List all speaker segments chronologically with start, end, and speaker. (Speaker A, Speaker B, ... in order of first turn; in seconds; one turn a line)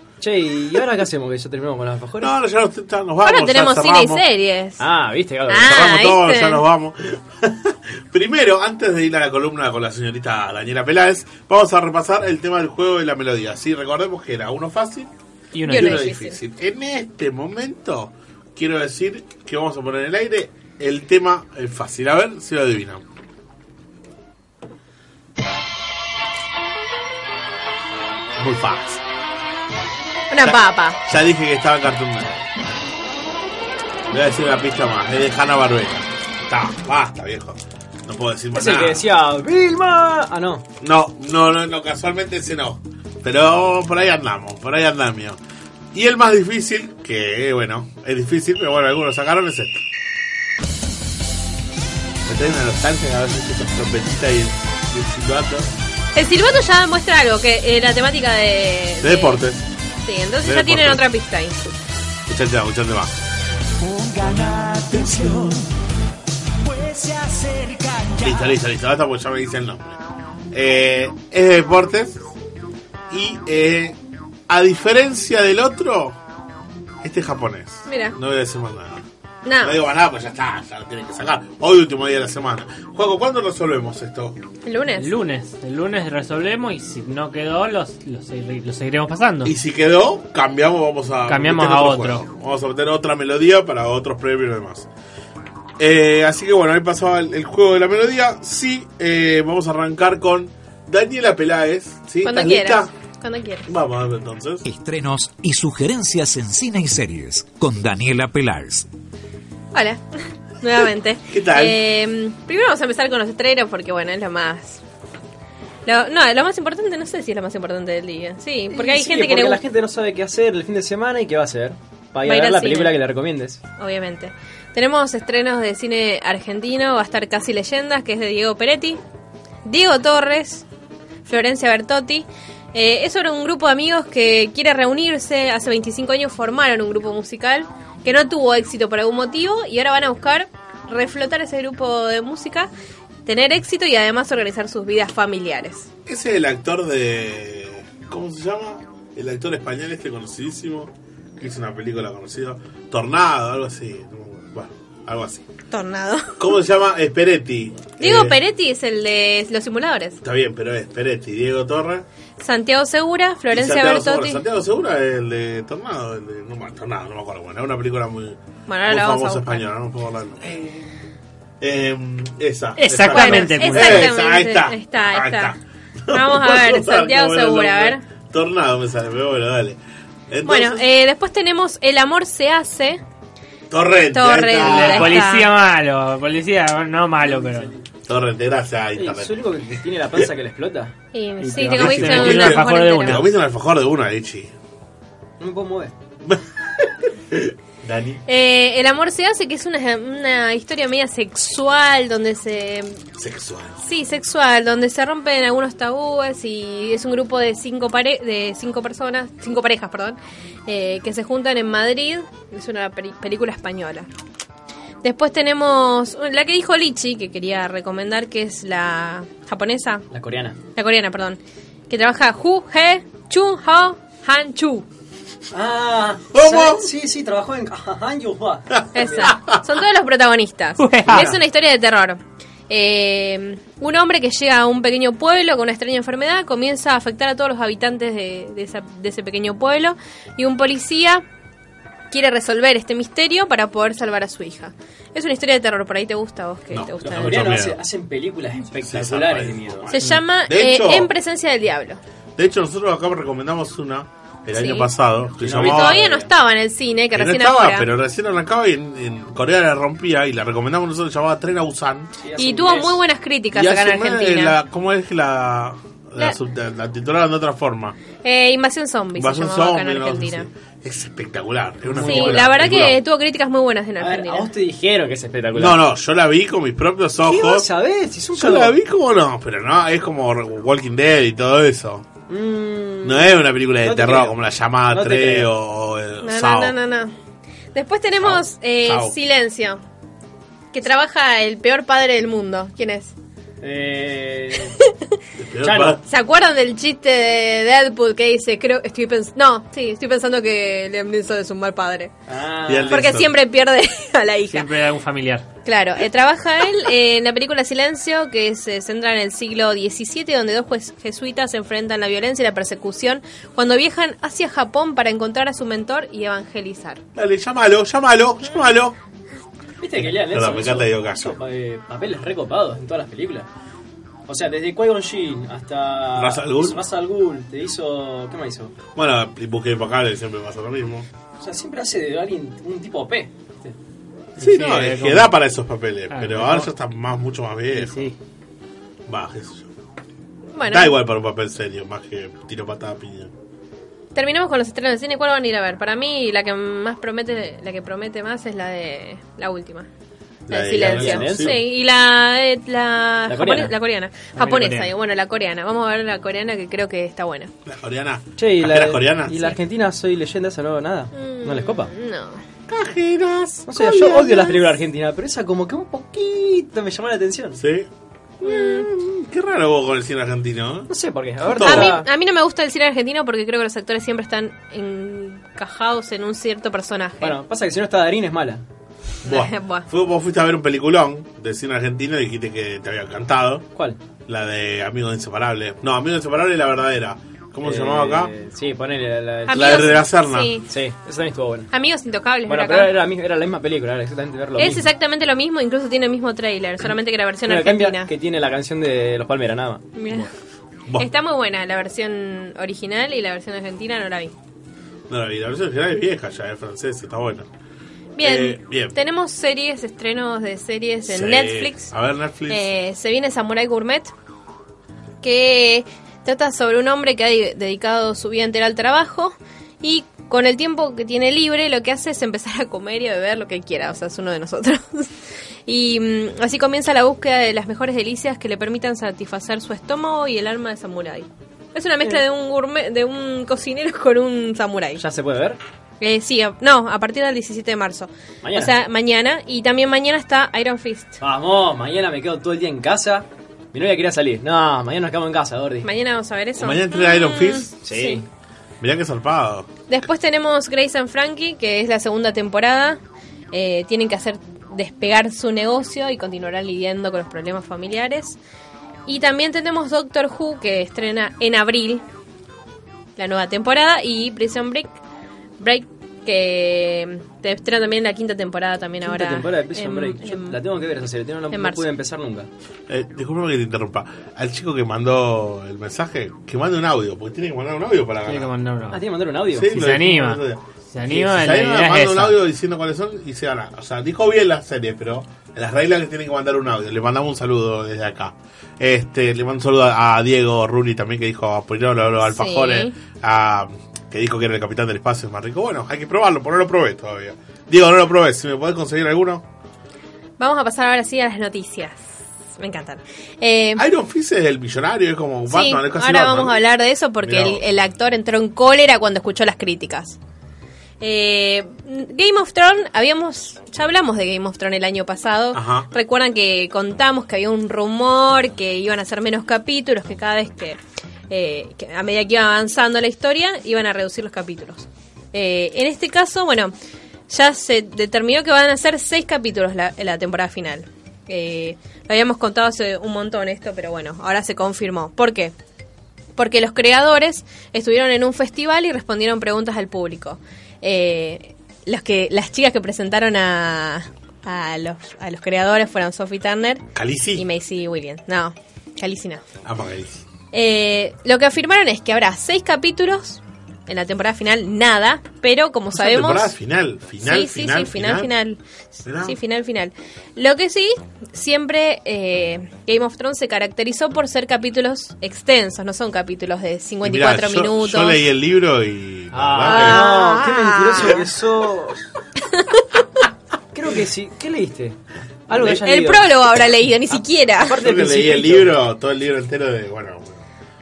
Speaker A: 0.2-2.3
Speaker B: 2.2-4.2
Speaker C: 3.2-4.8
Speaker A: 4.8-5.8
Speaker C: 5.5-6.6
Speaker B: 5.6-15.1
Speaker D: 15.5-16.1
Speaker B: 15.7-23.0
Speaker C: 15.7-16.4
Speaker B: 28.4-29.0
Speaker C: 30.3-31.0
Speaker B: 30.4-32.4
Speaker B: 34.1-39.0
Speaker A: 38.5-40.6
Speaker B: 40.8-45.4
Speaker B: 45.9-49.8
Speaker B: 52.2-55.7
Speaker C: 56.1-59.4
Speaker B: 59.0-59.6
Speaker C: 60.0-61.7
Speaker B: 60.4-61.0
Speaker B: 62.3-63.1
Speaker E: 63.8-65.7
Speaker B: 64.2-65.4
Speaker E: 66.6-68.4
Speaker B: 68.2-70.0
Speaker B: 70.5-72.2
Speaker B: 73.1-74.0
Speaker B: 74.5-76.2
Speaker B: 77.0-79.0
Speaker C: 77.9-78.2
Speaker C: 79.4-79.8
Speaker B: 79.6-84.4
Speaker C: 84.6-85.1
Speaker D: 85.0-89.5
Speaker B: 89.4-94.9
Speaker D: 91.3-92.2
Speaker B: 95.8-102.9
Speaker C: 102.2-103.7
Speaker B: 103.7-104.7
Speaker E: 104.6-108.9
Speaker C: 109.7-110.0
Speaker C: 110.6-114.8
Speaker B: 111.3-111.8
Speaker C: 115.8-119.6
Speaker A: 118.7-123.6
Speaker C: 122.2-123.0
Speaker C: 123.8-129.0
Speaker C: 129.6-130.6
Speaker C: 131.2-142.7
Speaker C: 143.2-145.9
Speaker B: 146.1-155.4
Speaker C: 155.7-156.4
Speaker B: 156.4-158.4
Speaker C: 158.0-160.2
Speaker B: 160.2-162.1
Speaker C: 162.4-164.4
Speaker B: 163.5-170.8
Speaker C: 168.7-169.6
Speaker B: 171.6-179.8
Speaker D: 172.8-174.1
Speaker C: 173.1-175.5
Speaker C: 176.1-178.0
Speaker B: 180.3-180.8
Speaker C: 180.4-183.0
Speaker B: 183.7-185.3
Speaker C: 184.1-185.5
Speaker D: 184.6-187.7
Speaker A: 187.3-187.7
Speaker B: 188.1-190.2
Speaker A: 188.9-190.9
Speaker C: 191.1-193.2
Speaker D: 191.4-193.3
Speaker B: 191.7-194.5
Speaker A: 195.4-195.9
Speaker B: 196.2-198.2
Speaker C: 198.3-203.0
Speaker B: 203.2-203.8
Speaker C: 203.8-214.1
Speaker C: 215.0-220.1
Speaker A: 220.1-220.6
Speaker C: 220.7-224.8
Speaker A: 225.5-229.3
Speaker B: 226.3-226.9
Speaker B: 228.8-229.6
Speaker C: 228.9-241.2
Speaker D: 230.8-231.3
Speaker C: 242.1-247.6
Speaker B: 246.7-247.8
Speaker A: 247.0-249.9
Speaker B: 248.8-251.1
Speaker C: 249.9-252.0
Speaker B: 252.4-256.2
Speaker C: 254.5-254.9
Speaker A: 255.4-256.3
Speaker C: 255.5-257.9
Speaker B: 257.1-262.1
Speaker A: 262.2-263.0
Speaker C: 262.4-264.6
Speaker B: 263.5-268.0
Speaker C: 268.2-270.5
Speaker B: 269.1-273.0
Speaker A: 271.9-272.4
Speaker C: 272.0-274.5
Speaker A: 274.0-275.8
Speaker B: 275.5-277.7
Speaker A: 277.2-278.8
Speaker B: 278.3-282.1
Speaker A: 282.3-285.5
Speaker B: 283.0-286.8
Speaker C: 286.2-287.1
Speaker C: 287.7-289.8
Speaker B: 288.2-289.1
Speaker C: 290.7-293.1
Speaker A: 293.6-294.8
Speaker B: 295.4-296.0
Speaker A: 295.6-296.0
Speaker C: 296.0-302.1
Speaker A: 302.3-303.1
Speaker B: 302.7-303.4
Speaker C: 302.9-304.7
Speaker D: 304.5-305.4
Speaker C: 305.6-317.0
Speaker B: 317.1-319.0
Speaker A: 319.8-323.5
Speaker B: 319.9-321.3
Speaker A: 324.3-328.7
Speaker B: 326.1-326.8
Speaker B: 328.9-331.1
Speaker A: 331.4-333.7
Speaker B: 334.4-338.1
Speaker D: 334.4-335.3
Speaker D: 336.1-336.6
Speaker D: 337.7-338.1
Speaker B: 339.1-339.7
Speaker C: 340.5-340.9
Speaker B: 340.6-343.3
Speaker C: 344.1-349.9
Speaker B: 350.5-351.6
Speaker C: 350.5-357.5
Speaker A: 350.7-351.6
Speaker A: 353.3-353.7
Speaker D: 354.4-354.9
Speaker B: 357.6-359.6
Speaker A: 358.4-361.9
Speaker C: 361.1-362.4
Speaker B: 362.7-364.5
Speaker A: 363.7-367.6
Speaker B: 367.6-367.9
Speaker B: 368.4-370.9
Speaker C: 368.4-368.9
Speaker A: 370.9-372.1
Speaker B: 371.5-372.0
Speaker C: 371.6-377.4
Speaker A: 377.2-378.6
Speaker B: 379.2-383.7
Speaker C: 379.2-379.9
Speaker B: 384.3-388.3
Speaker A: 387.6-390.1
Speaker C: 389.5-390.7
Speaker B: 389.5-390.5
Speaker A: 390.7-391.7
Speaker C: 391.7-392.9
Speaker A: 392.4-394.9
Speaker C: 394.6-398.1
Speaker A: 397.4-400.2
Speaker C: 399.9-400.3
Speaker C: 401.0-404.3
Speaker B: 405.1-407.5
Speaker C: 408.1-411.9
Speaker B: 408.2-408.9
Speaker B: 411.1-412.7
Speaker C: 412.5-414.1
Speaker C: 415.2-425.1
Speaker C: 425.6-435.0
Speaker A: 435.0-435.6
Speaker C: 436.0-441.2
Speaker A: 438.4-438.7
Speaker A: 441.2-445.9
Speaker C: 445.8-448.2
Speaker B: 446.6-447.7
Speaker A: 447.8-448.2
Speaker B: 448.8-449.7
Speaker C: 449.9-453.0
Speaker C: 453.5-458.4
Speaker C: 459.1-462.0
Speaker C: 463.2-464.9
Speaker C: 465.6-470.6
Speaker A: 469.0-472.5
Speaker C: 471.5-471.8
Speaker B: 472.9-478.5
Speaker D: 478.2-479.0
Speaker A: 478.9-479.8
Speaker B: 479.5-499.4
Speaker D: 479.7-480.4
Speaker D: 480.9-482.4
Speaker C: 492.2-492.9
Speaker C: 500.4-502.0
Speaker C: 502.6-503.8
Speaker B: 503.8-506.6
Speaker C: 505.5-510.2
Speaker B: 507.2-507.6
Speaker C: 511.0-520.8
Speaker B: 515.5-515.9
Speaker C: 521.3-526.7
Speaker C: 527.3-535.5
Speaker C: 536.4-549.4
Speaker B: 546.9-547.4
Speaker B: 549.6-550.2
Speaker C: 550.5-556.5
Speaker B: 555.9-558.3
Speaker C: 557.2-558.6
Speaker B: 559.0-559.4
Speaker C: 559.1-568.2
Speaker B: 567.0-570.2
Speaker A: 569.3-572.1
Speaker C: 569.6-571.2
Speaker C: 572.5-572.8
Speaker A: 573.7-576.3
Speaker C: 575.5-577.8
Speaker A: 577.1-578.8
Speaker B: 577.8-580.4